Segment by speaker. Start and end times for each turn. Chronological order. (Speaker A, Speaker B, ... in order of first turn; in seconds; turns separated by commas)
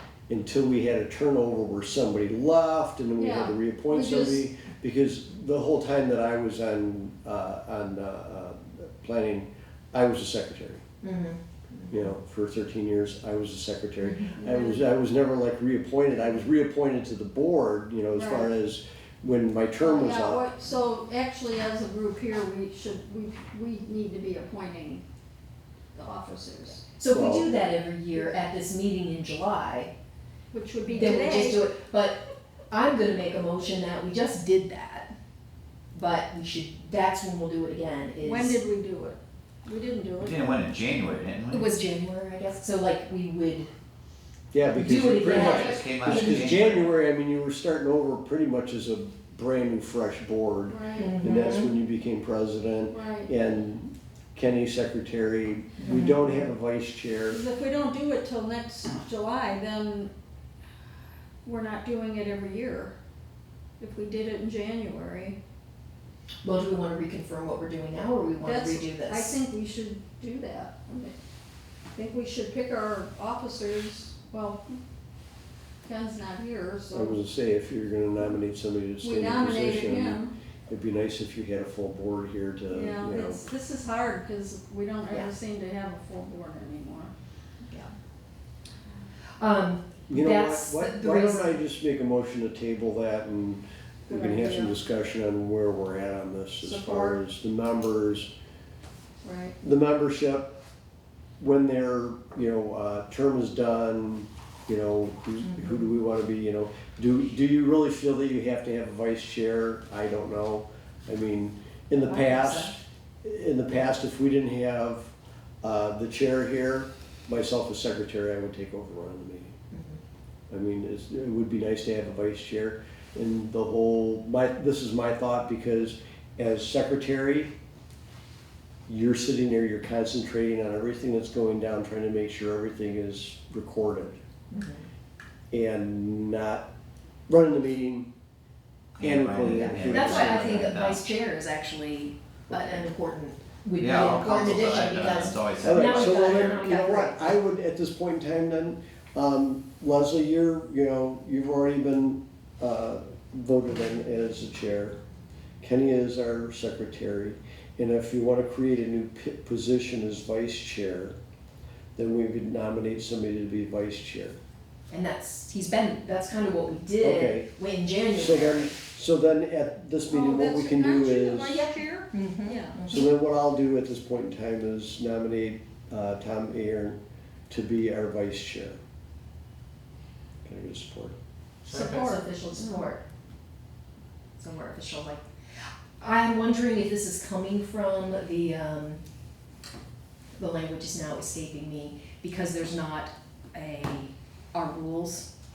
Speaker A: 0.3-10.8, Speaker B: 3.1-4.5, Speaker C: 11.0-11.9, Speaker A: 11.9-20.4, Speaker B: 14.4-14.8, Speaker B: 18.1-18.5, Speaker B: 19.8-25.0, Speaker B: 25.9-26.8, Speaker C: 27.0-29.9, Speaker A: 27.1-27.6, Speaker B: 30.5-31.6, Speaker C: 30.9-35.1, Speaker C: 35.9-38.6, Speaker B: 38.2-40.5, Speaker D: 40.2-41.6, Speaker C: 41.5-43.7, Speaker A: 44.5-57.4, Speaker C: 44.7-46.7, Speaker D: 45.3-46.7, Speaker B: 50.7-51.4, Speaker C: 51.0-51.7, Speaker B: 52.9-53.3, Speaker C: 55.8-56.5, Speaker B: 57.3-60.1, Speaker B: 61.4-63.0, Speaker B: 63.8-65.4, Speaker C: 66.4-69.3, Speaker B: 68.4-71.2, Speaker B: 71.9-74.6, Speaker B: 75.8-77.2, Speaker A: 76.9-83.5, Speaker B: 79.0-80.3, Speaker B: 82.7-87.1, Speaker C: 85.1-85.4, Speaker C: 89.4-91.5, Speaker A: 90.1-98.3, Speaker B: 94.1-94.8, Speaker B: 96.6-97.2, Speaker B: 99.2-99.5, Speaker A: 99.6-100.5, Speaker A: 101.4-119.6, Speaker C: 112.0-112.8, Speaker C: 119.7-120.0, Speaker A: 120.5-127.5, Speaker A: 128.9-134.2, Speaker C: 134.5-134.9, Speaker A: 135.5-136.7, Speaker A: 137.3-138.1, Speaker D: 139.0-141.0, Speaker A: 139.0-140.5, Speaker C: 139.5-147.4, Speaker D: 143.8-146.4, Speaker A: 145.6-155.0, Speaker A: 155.6-161.2, Speaker A: 162.0-164.4, Speaker C: 164.9-168.8, Speaker A: 167.0-167.5, Speaker A: 168.1-171.7, Speaker B: 170.1-172.8, Speaker C: 172.1-173.1, Speaker A: 172.9-177.0, Speaker A: 177.5-178.8, Speaker A: 180.4-181.2, Speaker C: 181.7-183.0, Speaker B: 181.7-182.9, Speaker C: 184.4-185.2, Speaker C: 186.0-189.0, Speaker C: 190.4-195.3